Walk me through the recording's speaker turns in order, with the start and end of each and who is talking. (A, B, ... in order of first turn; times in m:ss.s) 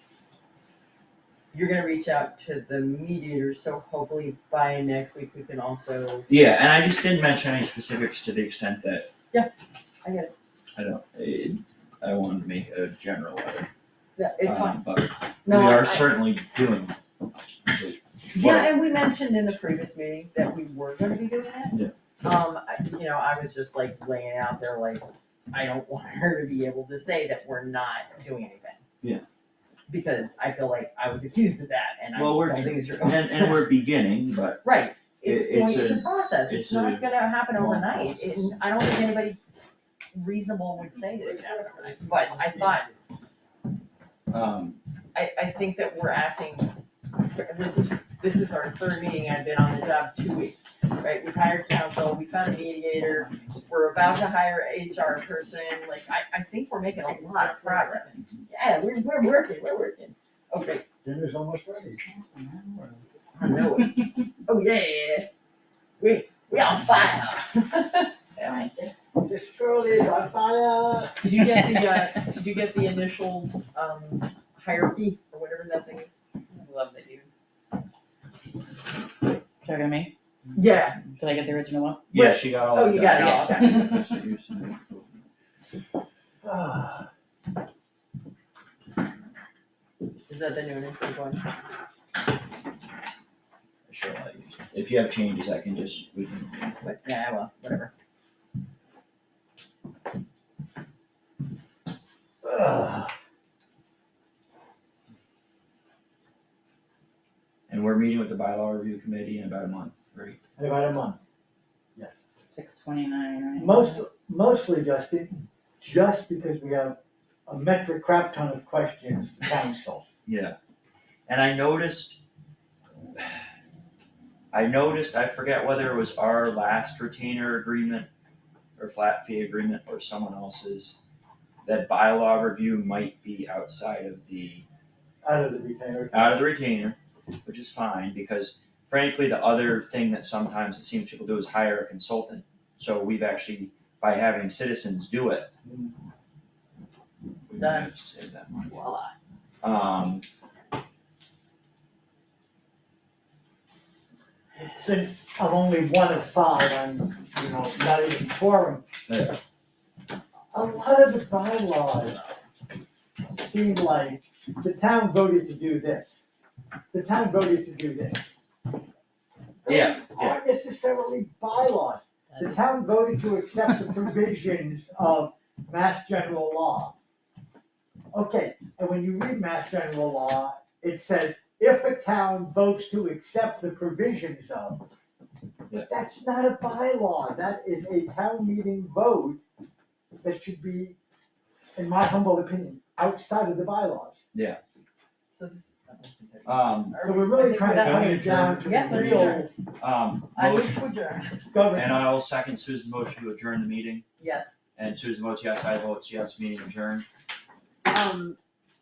0:01.5-0:06.3 A
0:06.3-0:09.1 B
0:09.3-0:10.3 A
0:10.8-0:13.7 B
0:14.2-0:14.8 A
0:14.4-0:16.9 B
0:15.4-0:16.1 A
0:17.7-0:18.7 B
0:18.3-0:28.8 A
0:29.9-0:33.7 A
0:32.1-0:34.6 B
0:34.6-0:39.4 A
0:35.2-0:38.5 B
0:40.1-0:42.9 A
0:44.3-0:44.8 B
0:45.1-1:00.8 A
0:53.1-0:54.2 C
0:57.0-0:58.2 C
1:01.0-1:02.0 D
1:02.0-1:03.0 C
1:03.4-1:05.3 A
1:06.0-1:08.1 A
1:08.4-1:08.9 C
1:09.2-1:11.2 D
1:11.2-1:17.3 A
1:19.6-1:20.1 C
1:20.5-1:21.0 A
1:21.2-1:22.0 C
1:22.1-1:25.2 B
1:22.1-1:23.9 A
1:26.4-1:27.0 D
1:30.3-1:31.4 A
1:33.9-1:36.8 B
1:36.8-1:37.9 A
1:42.4-1:43.1 D
1:47.7-1:50.4 B
1:50.6-1:51.2 D
1:52.5-1:53.9 C
1:53.6-2:00.0 D
2:00.2-2:00.6 B
2:01.3-2:02.2 B
2:04.5-2:08.1 B
2:08.8-2:11.0 B
2:11.6-2:14.6 B
2:15.2-2:16.4 D
2:16.1-2:25.5 B
2:25.6-2:25.9 D
2:27.5-2:28.8 B
2:27.6-2:27.9 A
2:28.6-2:29.1 A
2:29.6-2:30.2 B
2:34.8-2:38.9 D
2:39.1-2:39.4 B
2:40.5-2:42.3 D
2:43.3-2:46.1 D
2:46.9-2:48.3 D
2:49.6-2:56.9 D
2:49.6-2:50.4 B
2:58.1-3:04.8 D
3:05.7-3:09.4 D
3:10.2-3:11.0 D
3:11.8-3:14.2 D
3:14.3-3:14.6 B
3:15.3-3:19.5 A
3:16.4-3:17.0 B
3:17.0-3:19.5 D
3:17.7-3:20.8 B
3:20.3-3:21.5 A
3:21.5-3:22.0 D
3:21.7-3:24.0 B
3:24.2-3:24.5 A
3:24.8-3:27.0 B
3:27.9-3:28.4 A